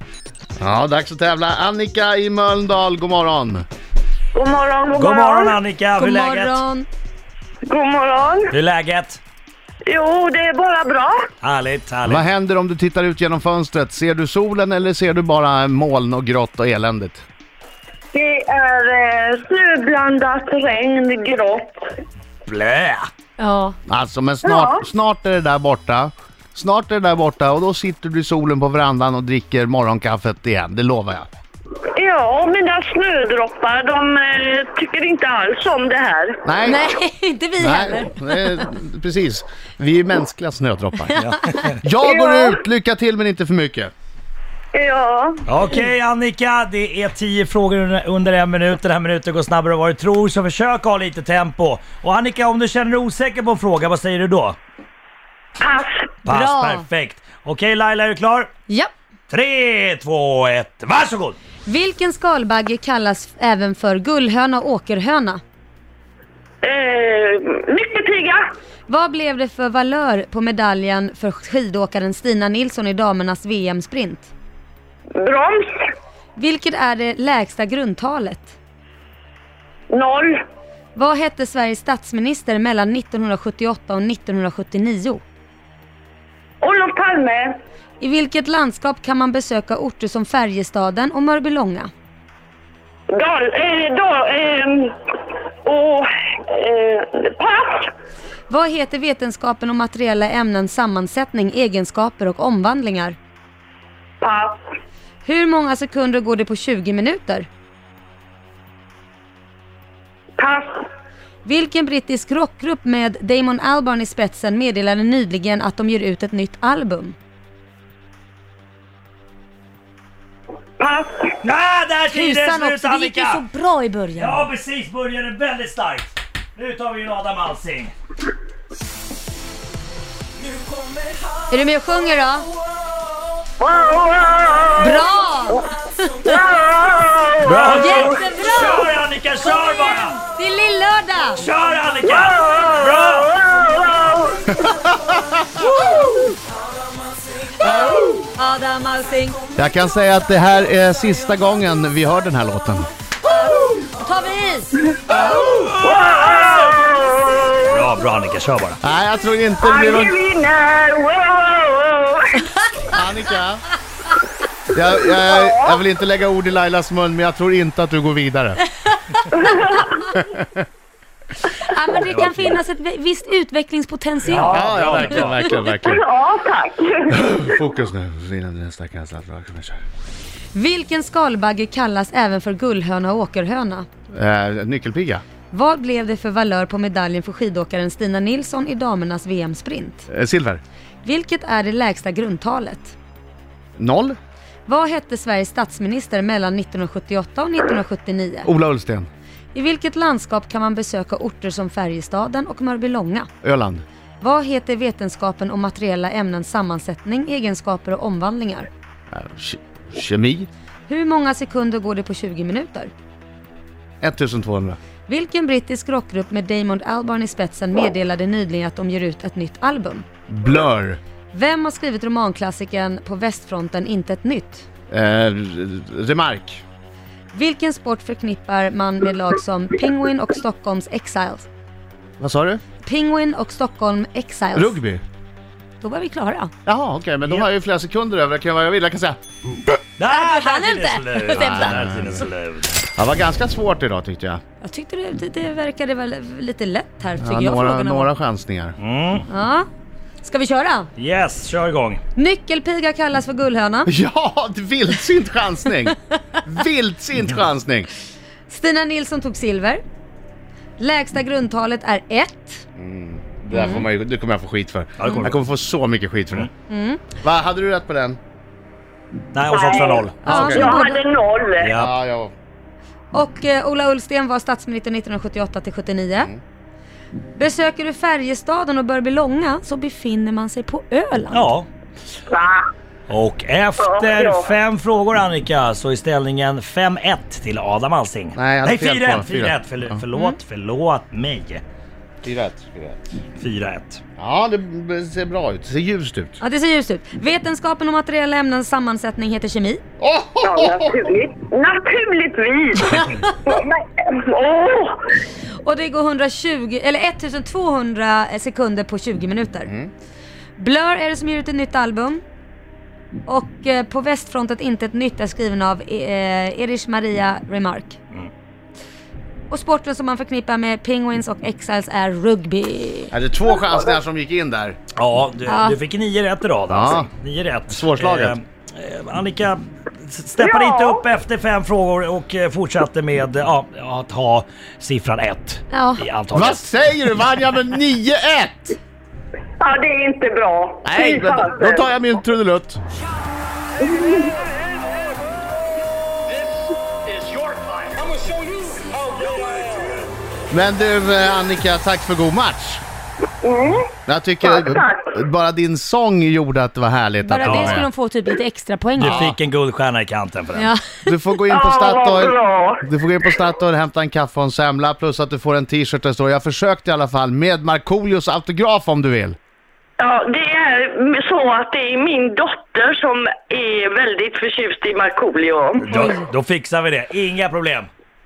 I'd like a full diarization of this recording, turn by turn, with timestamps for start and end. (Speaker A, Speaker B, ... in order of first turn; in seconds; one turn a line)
Speaker A: 0.6-3.6
Speaker B: 4.3-5.6
Speaker C: 4.9-6.6
Speaker D: 6.0-6.9
Speaker B: 7.7-8.5
Speaker C: 8.5-9.2
Speaker B: 9.9-11.3
Speaker C: 11.4-12.3
Speaker A: 12.1-17.2
Speaker B: 18.1-21.8
Speaker C: 22.5-23.1
Speaker D: 23.4-23.8
Speaker A: 23.9-31.3
Speaker B: 24.4-24.8
Speaker B: 31.9-36.4
Speaker A: 36.4-36.9
Speaker D: 36.6-38.6
Speaker A: 37.6-41.2
Speaker D: 41.1-41.6
Speaker C: 41.1-41.8
Speaker A: 41.8-43.9
Speaker B: 42.0-42.5
Speaker B: 44.7-45.4
Speaker C: 45.5-54.6
Speaker B: 55.6-56.1
Speaker C: 56.2-58.5
Speaker D: 56.3-56.9
Speaker C: 59.3-61.4
Speaker D: 61.7-65.4
Speaker B: 66.6-68.4
Speaker D: 68.9-74.3
Speaker B: 75.2-75.8
Speaker D: 76.4-78.6
Speaker B: 79.9-80.4
Speaker D: 81.0-85.2
Speaker B: 86.6-87.6
Speaker D: 88.0-91.9
Speaker B: 93.1-94.9
Speaker B: 95.7-97.9
Speaker D: 98.5-103.2
Speaker B: 104.2-104.6
Speaker D: 105.2-107.5
Speaker B: 110.4-110.7
Speaker D: 111.5-117.2
Speaker B: 120.8-121.3
Speaker C: 121.4-123.4
Speaker D: 122.1-124.5
Speaker C: 124.2-127.9
Speaker D: 131.5-132.5
Speaker B: 133.6-135.0
Speaker D: 134.8-136.4
Speaker B: 136.2-138.2
Speaker C: 137.4-140.2
Speaker D: 137.7-138.9
Speaker D: 139.5-141.4
Speaker C: 141.4-143.3
Speaker B: 142.1-144.6
Speaker A: 144.6-145.4
Speaker D: 147.6-149.4
Speaker A: 149.6-152.9
Speaker D: 153.2-155.4
Speaker B: 155.2-157.8
Speaker C: 155.2-156.8
Speaker C: 157.7-158.8
Speaker A: 158.8-160.2
Speaker B: 159.6-162.4
Speaker A: 162.9-163.6
Speaker A: 164.7-168.6
Speaker B: 165.2-165.8
Speaker D: 169.2-169.7
Speaker B: 169.3-169.9
Speaker A: 170.1-170.5
Speaker D: 171.6-174.6
Speaker C: 172.1-172.5
Speaker C: 174.3-175.5
Speaker A: 174.4-176.0
Speaker B: 175.5-177.3
Speaker A: 177.1-179.8
Speaker D: 180.5-183.9
Speaker A: 184.1-185.2
Speaker D: 185.5-190.1
Speaker A: 190.1-190.6
Speaker D: 191.0-192.9
Speaker A: 193.8-194.2
Speaker D: 194.7-198.5
Speaker A: 198.4-199.1
Speaker D: 199.5-203.3
Speaker A: 203.4-203.8
Speaker D: 204.2-208.7
Speaker A: 209.1-210.5
Speaker D: 210.9-212.9
Speaker A: 214.0-214.8
Speaker D: 215.1-220.1
Speaker A: 220.3-221.0
Speaker D: 221.3-224.7
Speaker A: 224.9-226.6
Speaker D: 227.3-231.5
Speaker A: 232.2-232.6
Speaker D: 232.8-234.8
Speaker A: 234.6-235.0
Speaker D: 235.8-236.5
Speaker A: 236.7-239.2
Speaker C: 240.0-242.8
Speaker D: 240.1-242.0
Speaker A: 241.4-242.1
Speaker A: 242.9-244.4
Speaker D: 244.6-248.1
Speaker A: 247.2-248.8
Speaker C: 248.8-249.3
Speaker D: 249.3-249.7
Speaker D: 250.2-250.9
Speaker C: 251.0-252.0
Speaker D: 252.2-253.9
Speaker A: 253.9-257.9
Speaker D: 258.5-259.8
Speaker D: 260.8-262.6
Speaker A: 262.8-266.5
Speaker D: 263.5-263.9
Speaker C: 265.0-265.4
Speaker D: 266.7-267.1
Speaker A: 267.2-268.2
Speaker C: 269.3-270.4
Speaker B: 269.5-271.7
Speaker D: 270.2-271.0
Speaker A: 270.3-270.8
Speaker C: 271.6-271.9
Speaker A: 271.8-272.3
Speaker D: 273.1-276.3
Speaker D: 277.4-281.5
Speaker C: 281.3-281.7
Speaker B: 282.3-282.7
Speaker C: 283.1-291.6
Speaker B: 283.8-284.5
Speaker A: 288.4-290.0
Speaker A: 292.2-293.1
Speaker C: 293.4-294.0
Speaker A: 294.2-296.4
Speaker D: 296.4-299.8
Speaker A: 300.0-300.9
Speaker B: 300.4-305.1
Speaker D: 302.9-303.3
Speaker D: 305.6-309.7
Speaker D: 310.6-312.2
Speaker D: 313.3-318.0
Speaker D: 319.5-323.1
Speaker A: 323.1-324.8
Speaker C: 325.0-336.7
Speaker D: 325.5-325.8
Speaker A: 326.7-327.1
Speaker A: 327.7-328.4
Speaker B: 330.4-331.0
Speaker D: 335.7-336.0
Speaker A: 336.3-338.8
Speaker B: 339.6-341.8
Speaker A: 340.9-342.8
Speaker B: 343.8-344.3
Speaker A: 350.5-352.8
Speaker B: 353.4-353.9
Speaker A: 354.1-357.9
Speaker B: 354.4-355.1
Speaker D: 357.2-359.3
Speaker C: 357.4-357.9
Speaker C: 359.0-360.7
Speaker A: 359.0-359.4
Speaker D: 360.6-361.1
Speaker A: 361.1-369.4
Speaker B: 361.5-362.8
Speaker B: 370.0-376.0
Speaker C: 375.8-377.9
Speaker D: 375.9-376.2